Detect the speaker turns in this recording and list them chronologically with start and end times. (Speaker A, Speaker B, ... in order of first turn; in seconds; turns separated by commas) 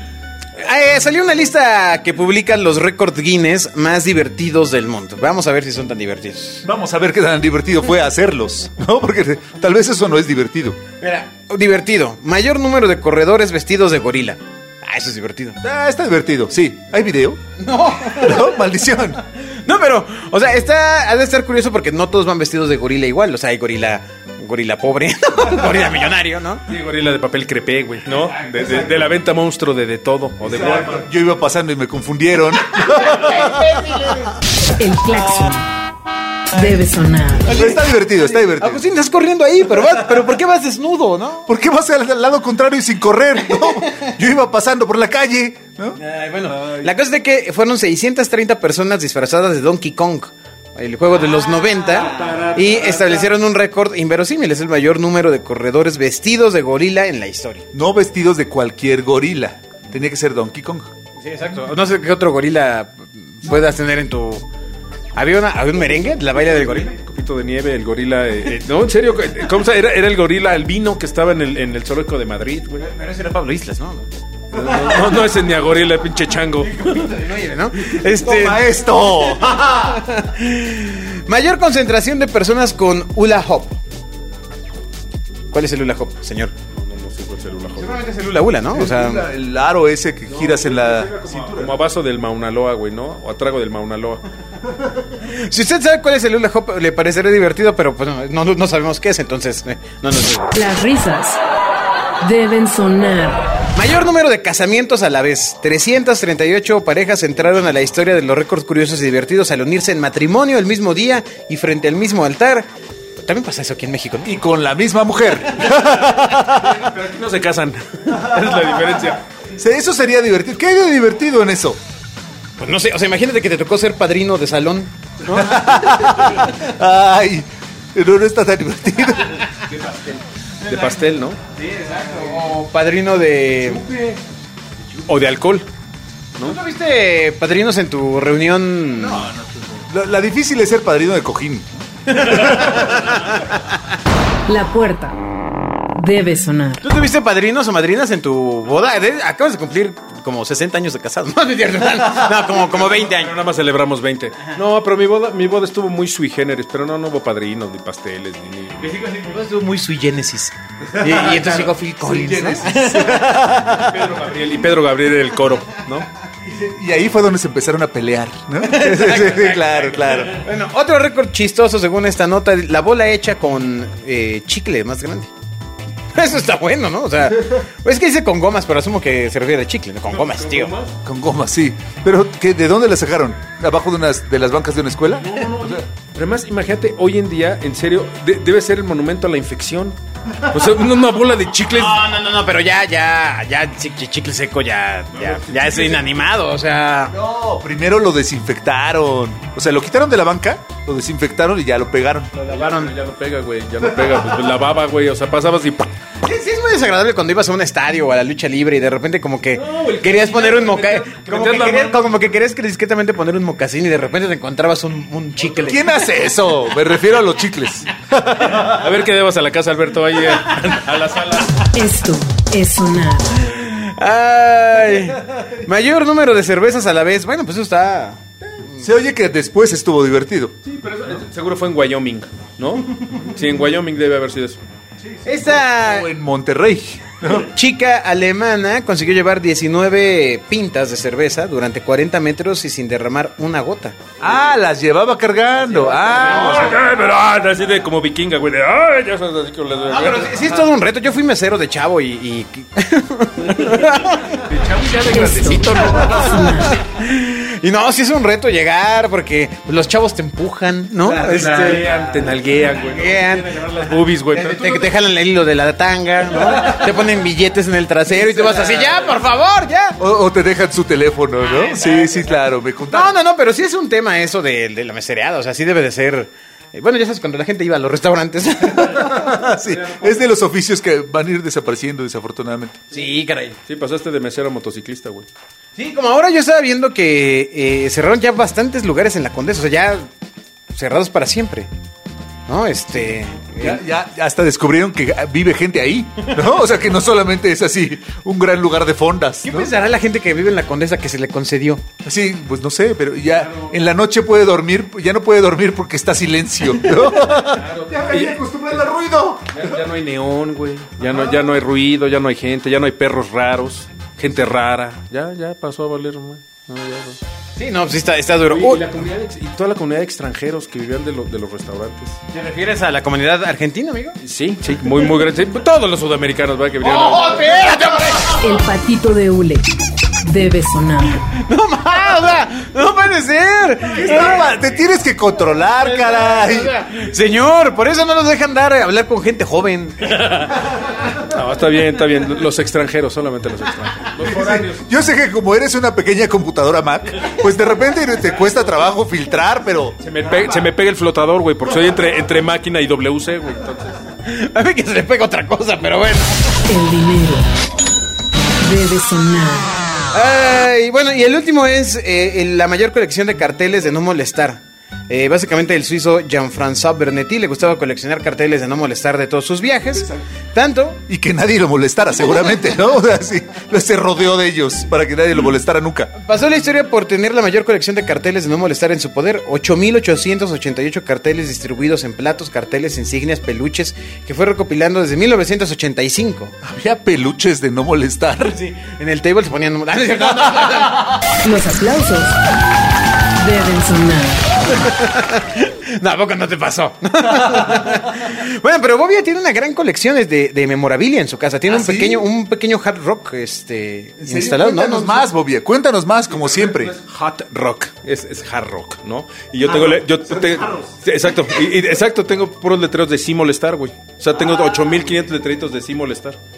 Speaker A: 0.6-6.6, Speaker B: 6.6-10.8, Speaker A: 11.0-15.6, Speaker B: 15.6-17.4, Speaker A: 17.6-18.5, Speaker B: 18.1-19.2, Speaker A: 19.3-26.6, Speaker C: 26.7-31.0, Speaker B: 30.5-33.6, Speaker A: 32.8-34.4, Speaker D: 34.8-35.7, Speaker D: 36.5-37.5, Speaker B: 37.5-38.8, Speaker A: 37.5-41.5, Speaker B: 41.5-46.9, Speaker A: 43.6-44.1, Speaker A: 46.0-57.6, Speaker C: 52.0-53.2, Speaker B: 57.7-60.9, Speaker A: 61.2-64.5, Speaker A: 65.1-66.9, Speaker C: 66.5-72.8, Speaker A: 72.8-74.1, Speaker C: 74.5-76.9, Speaker B: 74.5-75.1, Speaker A: 76.6-83.8, Speaker B: 78.1-79.7, Speaker A: 85.5-86.5, Speaker C: 86.7-88.0, Speaker A: 87.8-89.3, Speaker B: 88.7-91.8, Speaker C: 90.3-94.2, Speaker A: 95.2-100.5, Speaker D: 100.5-101.4, Speaker D: 102.2-103.4, Speaker A: 103.8-112.7, Speaker A: 113.2-114.3, Speaker B: 114.2-116.8, Speaker C: 116.5-119.2, Speaker B: 119.5-121.8, Speaker A: 122.6-126.4, Speaker B: 125.3-129.4, Speaker C: 129.7-131.4, Speaker A: 131.6-133.9, Speaker C: 133.6-134.2, Speaker C: 134.9-135.7, Speaker A: 136.4-139.3, Speaker B: 139.0-142.9, Speaker A: 142.1-143.1, Speaker D: 144.5-145.2, Speaker D: 145.9-146.8, Speaker A: 146.8-153.4, Speaker C: 152.7-158.9, Speaker A: 158.8-163.9, Speaker B: 161.0-163.9, Speaker C: 163.8-166.1, Speaker B: 166.4-170.5, Speaker A: 168.6-169.6, Speaker C: 169.6-170.2, Speaker A: 170.3-175.3, Speaker A: 176.2-180.7, Speaker C: 180.1-180.9, Speaker B: 181.0-185.8, Speaker C: 185.2-192.1, Speaker A: 191.7-197.1, Speaker C: 195.2-196.1, Speaker B: 197.1-202.4, Speaker C: 202.4-205.9, Speaker A: 202.5-202.9, Speaker A: 206.2-216.0, Speaker C: 209.5-212.0, Speaker B: 215.6-218.6, Speaker C: 218.5-221.7, Speaker D: 221.7-223.4, Speaker A: 223.4-228.2, Speaker B: 228.8-230.6, Speaker C: 230.6-234.6, Speaker B: 235.1-237.5, Speaker A: 235.2-236.1, Speaker A: 237.3-244.1, Speaker B: 244.2-246.8, Speaker C: 245.6-250.7, Speaker A: 249.9-254.5, Speaker C: 254.3-256.4, Speaker D: 255.1-256.8, Speaker B: 255.1-256.6, Speaker A: 256.0-261.9, Speaker C: 261.1-264.9, Speaker A: 262.9-270.0, Speaker C: 268.2-269.1, Speaker B: 270.0-273.1, Speaker A: 272.9-279.6, Speaker B: 278.8-282.9, Speaker A: 282.9-283.6, Speaker C: 283.7-285.3, Speaker A: 285.8-290.1, Speaker A: 290.7-291.7, Speaker A: 292.5-293.8, Speaker B: 293.6-299.7, Speaker A: 299.4-301.9, Speaker B: 302.0-309.8, Speaker C: 303.4-303.7, Speaker C: 307.4-308.4, Speaker C: 309.5-317.2, Speaker A: 317.6-318.9, Speaker C: 318.5-322.2, Speaker A: 322.3-324.2, Speaker C: 324.2-327.4, Speaker A: 326.8-328.5, Speaker D: 328.4-329.7, Speaker D: 330.2-331.2, Speaker A: 331.3-334.6, Speaker B: 333.9-336.8, Speaker A: 335.8-340.5, Speaker C: 340.2-340.6, Speaker C: 341.2-344.8, Speaker B: 344.2-350.0, Speaker C: 350.0-354.0, Speaker A: 354.2-356.5, Speaker D: 356.7-357.5, Speaker D: 358.6-359.8, Speaker A: 360.1-371.0, Speaker B: 371.1-376.1, Speaker A: 376.2-386.5, Speaker B: 386.6-388.6, Speaker A: 388.4-391.1, Speaker D: 391.4-392.4, Speaker D: 393.4-394.5, Speaker A: 394.8-405.3, Speaker B: 401.7-402.3, Speaker B: 404.2-406.9, Speaker C: 406.4-416.4, Speaker B: 409.6-410.9